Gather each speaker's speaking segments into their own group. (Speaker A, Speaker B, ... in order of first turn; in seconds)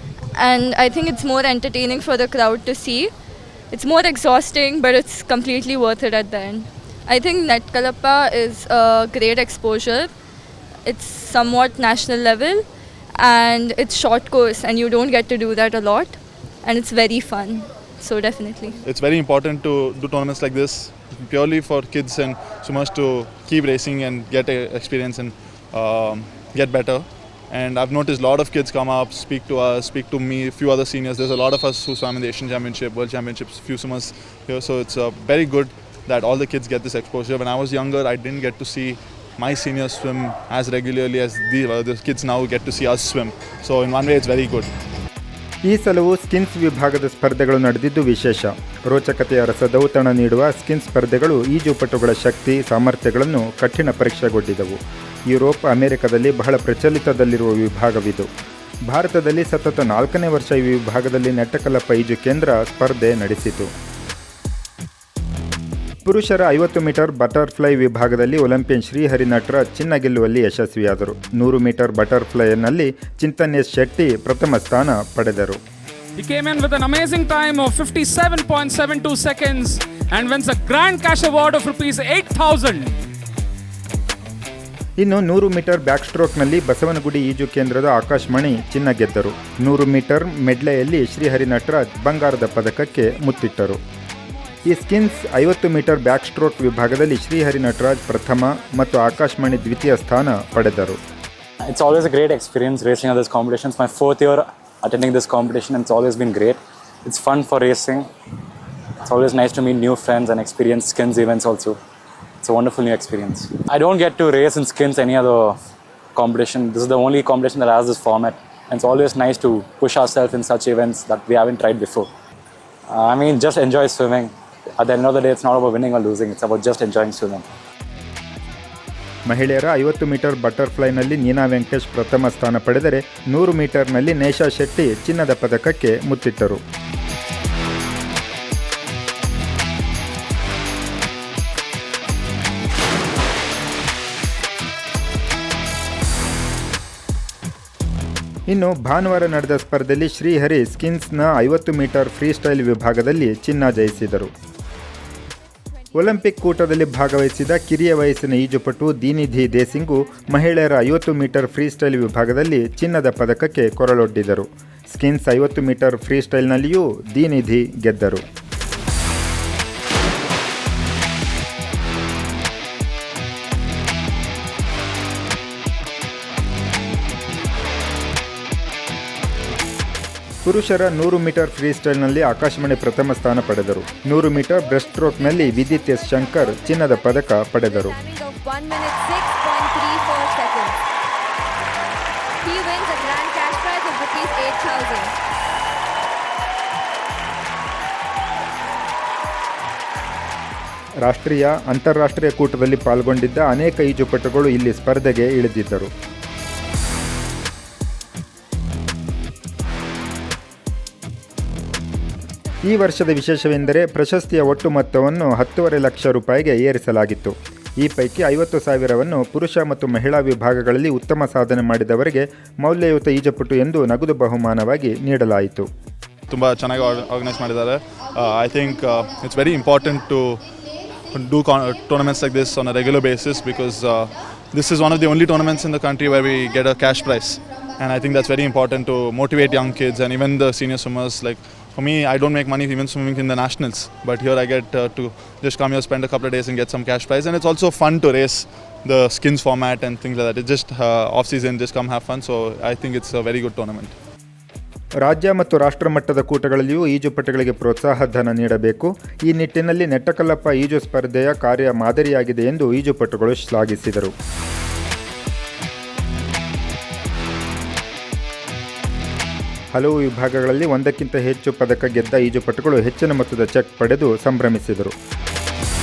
Speaker A: 0.3-3.1, 3.7-10.1, 10.8-12.7, 13.2-18.8
Speaker B: 18.8-44.7, 226.3-253.9
Speaker C: 45.6-58.3, 58.9-63.7, 66.0-75.6, 85.0-93.8, 94.6-101.0, 129.3-136.6, 148.5-154.3, 155.9-168.2, 180.4-187.9, 201.1-205.9, 212.7-225.7, 255.0-264.1, 269.7-274.9
Speaker D: 76.2-82.9
Speaker E: 101.6-108.1, 109.0-111.8, 112.4-115.6, 116.1-122.1, 122.9-127.5
Speaker F: 183.9-190.7, 192.4-195.1